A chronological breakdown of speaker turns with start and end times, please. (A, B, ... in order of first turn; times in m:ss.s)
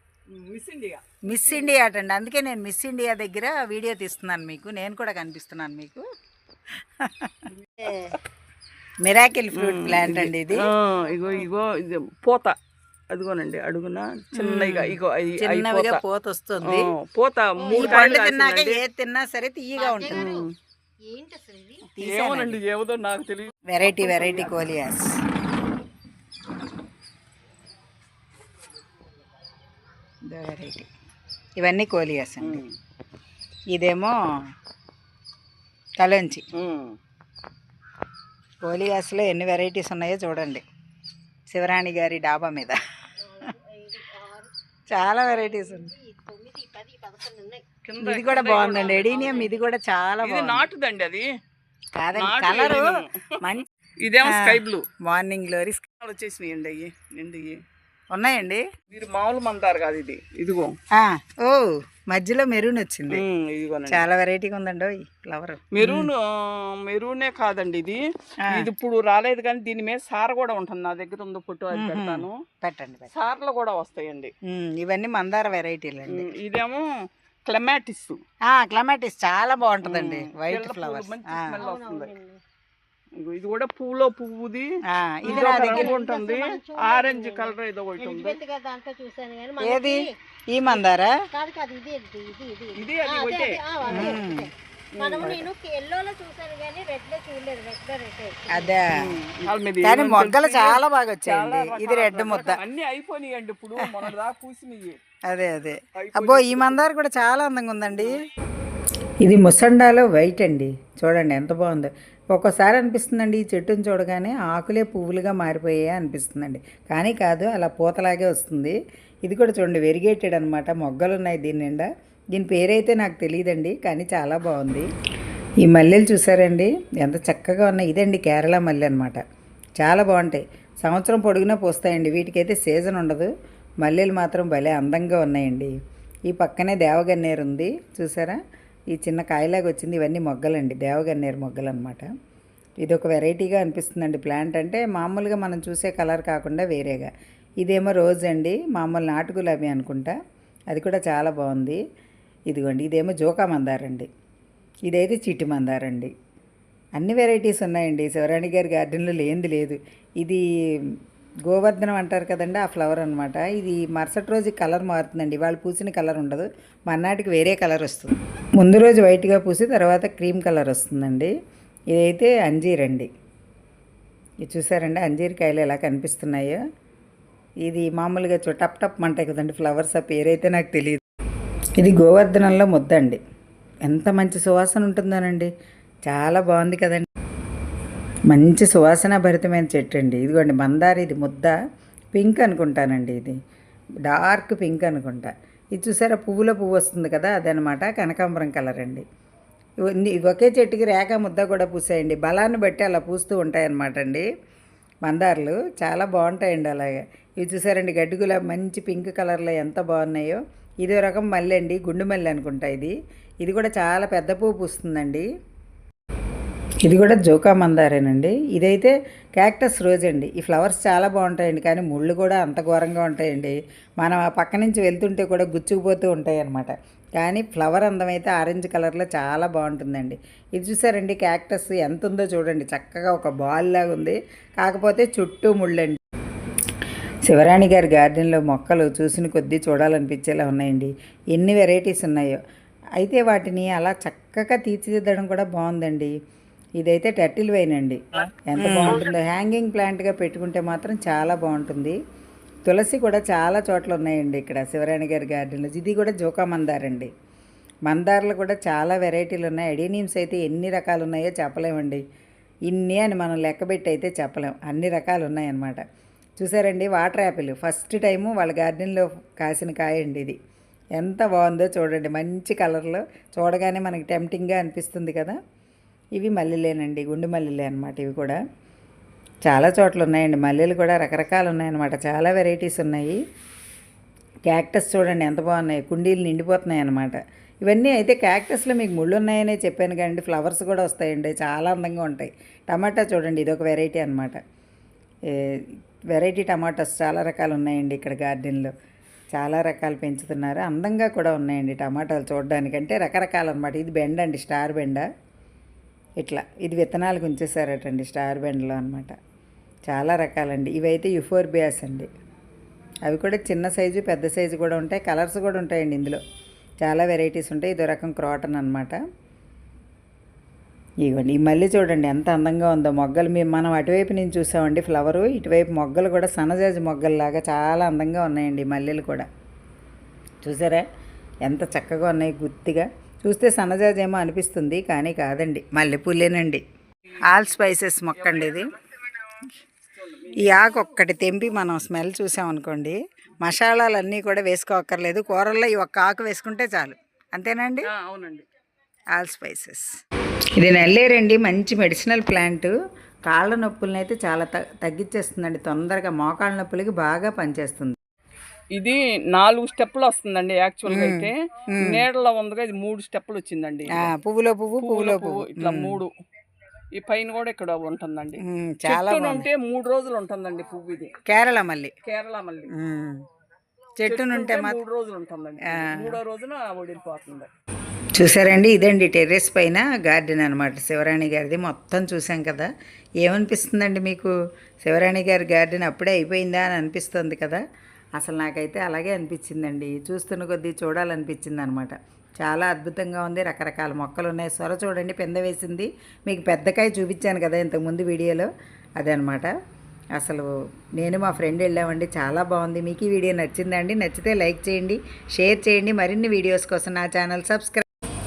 0:00.3-0:01.2 A
0:01.2-0:06.0 B
0:07.0-0:07.5 B
0:07.5-0:08.2 A
0:07.8-0:08.2 C
0:09.0-0:10.7 B
0:09.5-0:12.6 A
0:13.1-0:16.0 A
0:14.3-0:16.9 B
0:16.6-0:18.8 A
0:17.6-0:18.1 C
0:17.7-0:20.4 B
0:19.8-0:20.5 C
0:20.1-0:20.5 A
0:21.1-0:21.9 C
0:22.0-0:22.6 B
0:22.0-0:24.6 A
0:23.7-0:25.1 B
0:30.2-0:30.9 B
0:31.6-0:32.6 B
0:32.4-0:32.8 A
0:33.7-0:34.2 B
0:36.0-0:36.5 B
0:36.6-0:37.0 A
0:38.6-0:40.6 B
0:41.5-0:42.8 B
0:43.2-0:47.7 C
0:44.9-0:45.9 B
0:47.8-0:49.5 A
0:48.0-0:50.7 B
0:48.6-0:49.7 C
0:50.2-0:51.3 A
0:52.0-0:53.6 B
0:52.2-0:53.4 A
0:54.0-0:54.9 A
0:54.2-0:55.8 B
0:56.0-0:57.6 A
0:58.1-0:58.6 B
0:58.9-1:00.8 A
1:01.0-1:03.2 B
1:03.1-1:04.1 A
1:03.9-1:06.1 B
1:05.7-1:12.4 A
1:11.7-1:13.1 B
1:13.1-1:14.3 A
1:14.5-1:16.3 B
1:16.1-1:16.9 A
1:17.5-1:18.2 A
1:18.5-1:21.6 B
1:19.8-1:22.1 A
1:21.6-1:22.4 C
1:23.2-1:24.7 A
1:24.9-1:25.9 B
1:25.2-1:28.4 A
1:25.3-1:30.1 C
1:29.6-1:31.2 B
1:31.3-1:38.8 C
1:32.8-1:34.2 A
1:33.9-1:34.5 B
1:34.9-1:35.4 A
1:35.2-1:35.5 B
1:38.5-1:39.1 B
1:38.9-1:45.0 A
1:39.8-1:42.6 B
1:45.3-1:48.2 B
1:46.0-1:46.9 A
1:49.2-2:04.9 B
2:05.6-2:09.2 B
2:09.8-2:13.3 B
2:13.8-2:15.7 B
2:16.3-2:18.4 B
2:18.9-2:22.1 B
2:22.8-2:27.1 B
2:27.6-2:30.2 B
2:30.7-2:31.8 B
2:32.5-2:34.1 B
2:34.9-2:36.1 B
2:37.0-2:51.3 B
2:51.9-2:53.1 B
2:54.4-2:56.6 B
2:57.6-3:01.0 B
3:01.8-3:03.2 B
3:03.8-3:05.5 B
3:06.1-3:07.1 B
3:08.3-3:11.6 B
3:12.2-3:13.4 B
3:14.1-3:19.0 B
3:19.9-3:24.2 B
3:25.0-3:35.3 B
3:36.8-3:56.0 B
3:57.3-4:02.4 B
4:03.0-4:06.1 B
4:06.8-4:12.0 B
4:12.7-4:17.1 B
4:17.9-4:22.0 B
4:22.7-4:25.8 B
4:26.4-4:30.4 B
4:31.0-4:35.4 B
4:36.2-4:38.4 B
4:39.4-4:43.2 B
4:44.5-4:54.4 B
4:56.1-4:58.7 B
4:59.3-5:05.1 B
5:06.2-5:09.2 B
5:09.9-5:12.1 B
5:13.1-5:16.2 B
5:16.8-5:19.0 B
5:21.0-5:29.3 B
5:30.4-5:30.9 B
5:31.4-5:36.6 B
5:37.2-5:38.7 B
5:38.2-5:38.6 A
5:39.9-5:40.9 A
5:40.4-5:47.9 B
5:47.8-5:48.5 A
5:49.1-5:50.0 B
5:50.6-5:52.7 B
5:53.3-5:58.0 B
5:58.8-6:04.1 A
6:00.9-6:02.0 B
6:03.9-6:06.0 B
6:04.8-6:06.1 A
6:06.9-6:11.1 A
6:08.4-6:09.5 B
6:11.3-6:11.9 B
6:12.0-6:12.7 A
6:12.7-6:13.2 B
6:14.0-6:14.8 B
6:14.0-6:17.5 A
6:15.7-6:16.2 B
6:18.2-6:22.7 B
6:23.2-6:24.3 B
6:24.8-6:27.6 B
6:28.2-6:38.5 B
6:39.0-6:39.5 B
6:40.2-6:47.9 B